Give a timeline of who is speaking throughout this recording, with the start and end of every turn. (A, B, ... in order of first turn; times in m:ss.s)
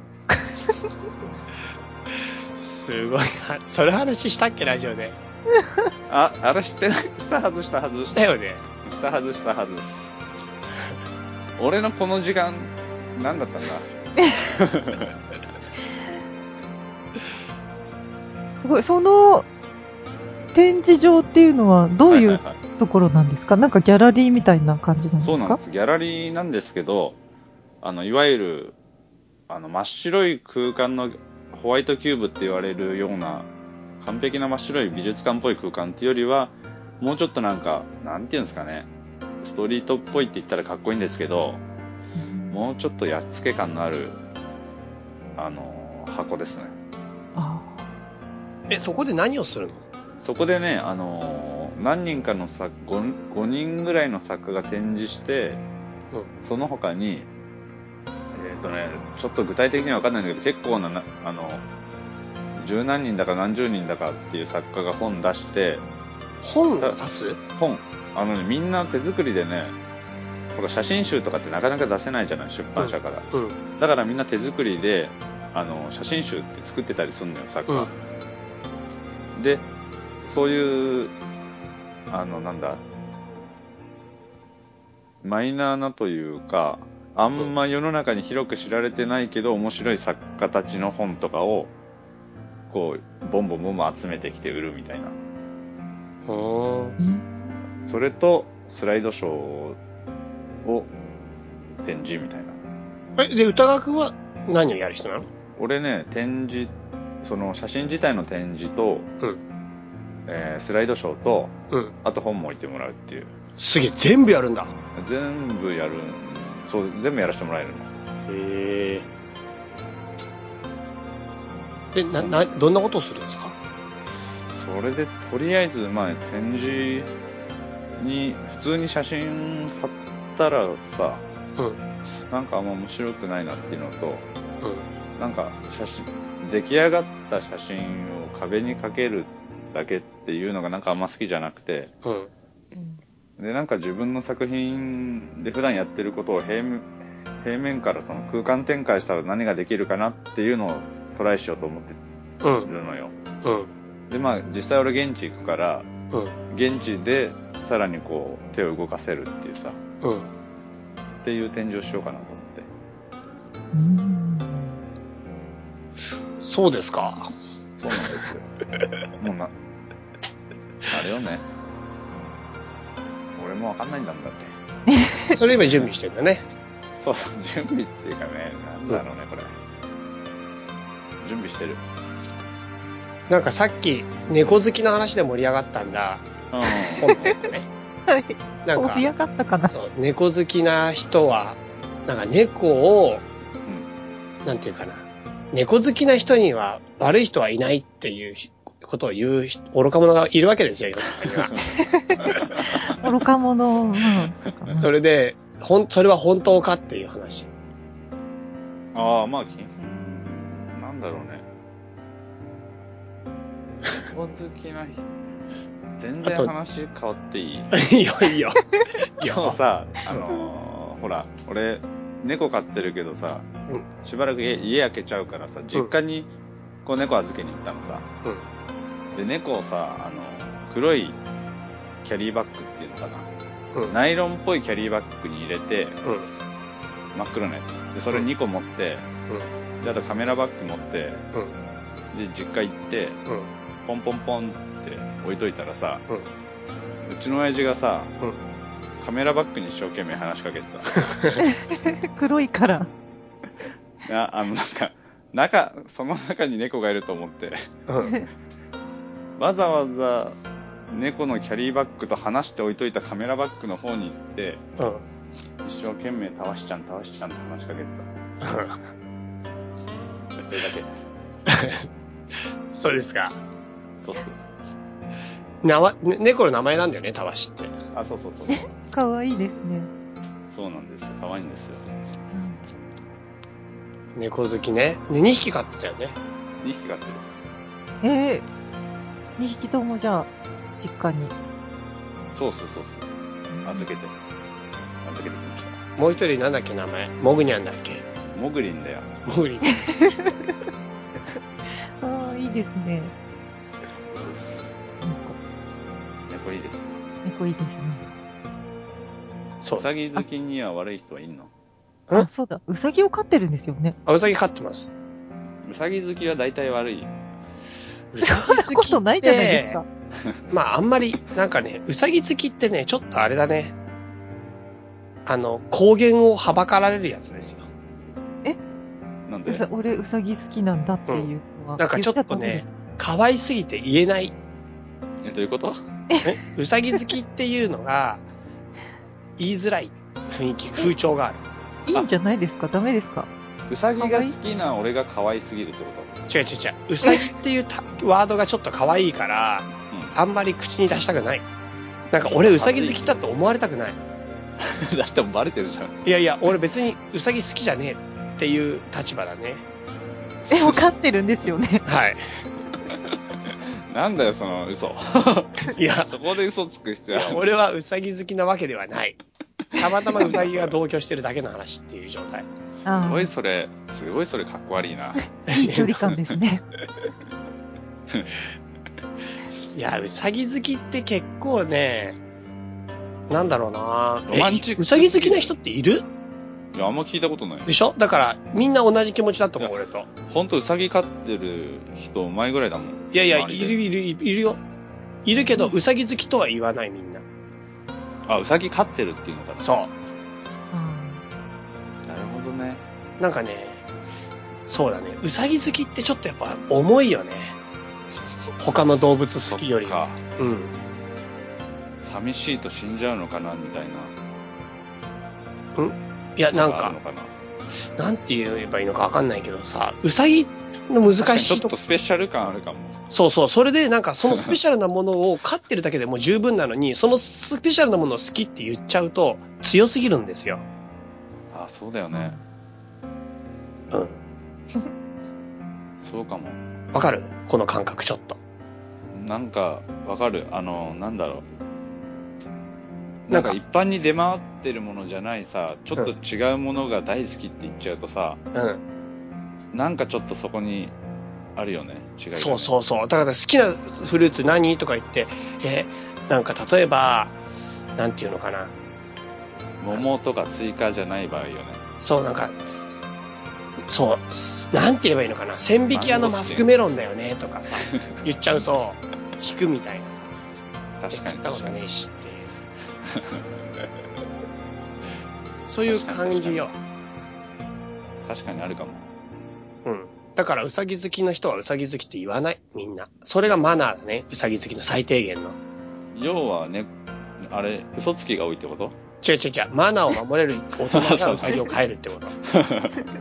0:00.3-0:00.9 A
0:02.5-0:05.2 B
0:06.1-0:08.2 C
0:08.0-0:08.6 B
0:08.8-0:09.9 C
0:10.6-0:11.0 B
0:11.6-0:15.2 C
0:18.6-0:19.5 A
0:20.5-0:25.6 A
0:22.1-0:22.6 C
0:25.2-0:27.2 C
0:27.8-0:28.8 C
0:29.5-0:33.5 C
0:34.0-0:38.9 C
0:39.4-0:41.6 C
0:42.2-0:42.6 A
0:42.5-0:44.2 C
0:45.4-0:46.7 C
0:47.4-0:47.9 A
0:48.7-0:49.8 B
0:50.2-0:55.6 C
0:56.4-0:57.3 C
0:58.3-1:01.6 C
1:02.6-1:05.8 C
1:06.4-1:07.4 B
1:06.8-1:07.0 C
1:07.5-1:09.8 C
1:10.6-1:13.3 C
1:12.8-1:13.6 B
1:13.8-1:17.9 C
1:19.4-1:19.7 C
1:20.2-1:21.1 C
1:22.1-1:22.8 C
1:25.2-1:31.7 C
1:32.7-1:35.2 C
1:36.3-1:37.0 B
1:37.0-1:37.2 A
1:37.8-1:39.8 C
1:40.6-1:40.9 C
1:41.8-1:42.6 C
1:43.2-1:45.3 B
1:45.6-1:49.1 C
1:50.3-1:53.3 C
1:53.6-1:54.7 B
1:55.0-1:57.9 C
1:58.3-1:59.1 B
2:01.9-2:03.6 B
2:04.6-2:07.1 C
2:08.0-2:11.2 C
2:12.0-2:14.3 C
2:15.2-2:21.9 C
2:22.0-2:22.3 B
2:23.4-2:26.9 C
2:27.4-2:32.0 C
2:32.4-2:32.7 B
2:32.6-2:33.1 C
2:33.4-2:33.7 B
2:34.1-2:35.9 C
2:36.5-2:39.8 C
2:40.0-2:40.3 B
2:41.2-2:42.7 C
2:43.7-2:44.7 A
2:46.4-2:47.3 B
2:47.8-2:48.5 C
2:49.2-2:49.5 C
2:50.9-2:51.5 C
2:53.4-2:54.5 C
2:54.9-2:55.4 A
2:55.3-2:56.4 B
2:57.0-2:59.5 C
3:01.2-3:01.8 C
3:03.3-3:06.3 B
3:06.5-3:07.4 C
3:07.0-3:07.7 B
3:08.1-3:09.8 A
3:08.6-3:09.1 B
3:09.6-3:13.3 B
3:14.4-3:21.5 B
3:21.4-3:21.6 C
3:21.8-3:24.9 A
3:22.2-3:22.8 C
3:24.7-3:27.5 B
3:28.9-3:31.5 C
3:34.1-3:35.1 C
3:36.0-3:37.8 C
3:36.2-3:36.5 B
3:37.7-3:38.6 B
3:39.2-3:40.3 B
3:39.2-3:43.5 C
3:44.0-3:46.3 C
3:46.8-3:48.1 C
3:49.1-3:51.2 C
3:52.0-3:53.3 C
3:53.9-3:56.0 C
3:57.1-3:59.1 C
3:59.8-4:01.2 C
4:02.1-4:03.2 C
4:03.8-4:06.0 C
4:07.0-4:08.1 C
4:09.0-4:11.1 C
4:11.4-4:12.9 A
4:14.0-4:17.7 C
4:17.9-4:18.2 B
4:19.4-4:20.4 C
4:20.9-4:24.6 C
4:24.8-4:25.0 B
4:25.6-4:28.1 C
4:28.4-4:28.8 B
4:30.4-4:30.9 C
4:31.5-4:31.9 B
4:32.7-4:33.4 B
4:34.0-4:34.4 C
4:35.6-4:37.8 B
4:37.9-4:38.7 C
4:38.5-4:39.9 A
4:40.5-4:41.8 C
4:42.3-4:42.6 A
4:44.2-4:46.2 B
4:46.6-4:47.3 C
4:48.0-4:48.4 A
4:49.4-4:51.3 A
4:52.3-4:53.1 C
4:53.5-4:53.9 A
4:53.6-4:54.2 C
4:55.0-4:55.8 C
4:56.0-4:58.0 B
4:58.3-4:59.1 C
4:59.3-5:00.0 B
4:59.6-5:00.4 A
5:02.0-5:03.1 A
5:04.2-5:04.7 C
5:05.0-5:05.4 A
5:06.3-5:07.0 C
5:07.2-5:08.0 A
5:09.6-5:09.9 B
5:09.7-5:11.5 C
5:12.2-5:14.0 A
5:14.1-5:14.9 B
5:15.6-5:17.1 C
5:18.1-5:19.8 B
5:18.2-5:19.8 A
5:20.5-5:23.8 B
5:25.3-5:27.7 B
5:29.3-5:29.7 C
5:29.5-5:32.7 A
5:31.1-5:34.4 B
5:35.2-5:35.8 C
5:36.1-5:36.4 A
5:36.2-5:38.2 B
5:39.4-5:41.5 B
5:41.9-5:43.3 A
5:43.7-5:46.2 C
5:44.0-5:44.4 A
5:46.3-5:51.4 B
5:49.9-5:50.2 C
5:52.1-5:54.0 B
5:52.2-5:53.0 C
5:54.6-5:56.1 C
5:56.0-5:59.6 B
6:00.5-6:01.9 A
6:01.9-6:02.3 B
6:03.5-6:07.5 C
6:05.7-6:06.1 B
6:07.1-6:09.2 B
6:09.8-6:12.5 B
6:10.1-6:10.8 C
6:12.7-6:15.2 C
6:12.9-6:13.3 A
6:15.4-6:16.6 A
6:15.5-6:15.9 B
6:16.0-6:16.4 C
6:19.7-6:22.2 B
6:23.3-6:26.1 B
6:24.3-6:25.5 C
6:26.7-6:27.7 C
6:27.7-6:30.1 B
6:30.3-6:33.8 C
6:33.1-6:34.6 B
6:35.2-6:37.2 B
6:38.3-6:39.8 C
6:39.6-6:39.9 B
6:40.7-6:41.2 A
6:42.1-6:42.8 C
6:43.2-6:43.8 B
6:44.7-6:47.6 B
6:48.6-6:50.7 B
6:49.5-6:50.2 C
6:52.0-6:54.1 C
6:55.8-6:57.0 B
6:56.5-6:57.3 C
6:58.0-7:01.8 B
7:01.2-7:03.0 C
7:03.1-7:10.6 B
7:11.5-7:12.4 C
7:12.1-7:12.4 A
7:13.9-7:14.2 B
7:16.0-7:16.6 C
7:16.9-7:18.4 B
7:19.1-7:21.5 C
7:23.3-7:28.4 C
7:23.3-7:23.6 B
7:28.5-7:28.8 B
7:29.7-7:30.9 C
7:31.6-7:32.7 C
7:32.4-7:37.4 B
7:38.0-7:38.7 B
7:39.8-7:41.8 C
7:42.0-7:42.6 B
7:43.9-7:50.3 B
7:45.9-7:46.7 C
7:47.8-7:48.2 C
7:51.0-7:51.8 C
7:51.1-7:52.5 B
7:53.1-7:53.4 C
7:55.7-7:56.8 B
7:55.9-7:56.7 C
7:58.2-7:59.1 C
7:59.8-8:05.6 B
8:06.1-8:06.9 C
8:07.4-8:09.0 C
8:09.2-8:12.4 B
8:10.9-8:11.7 C
8:12.5-8:13.1 C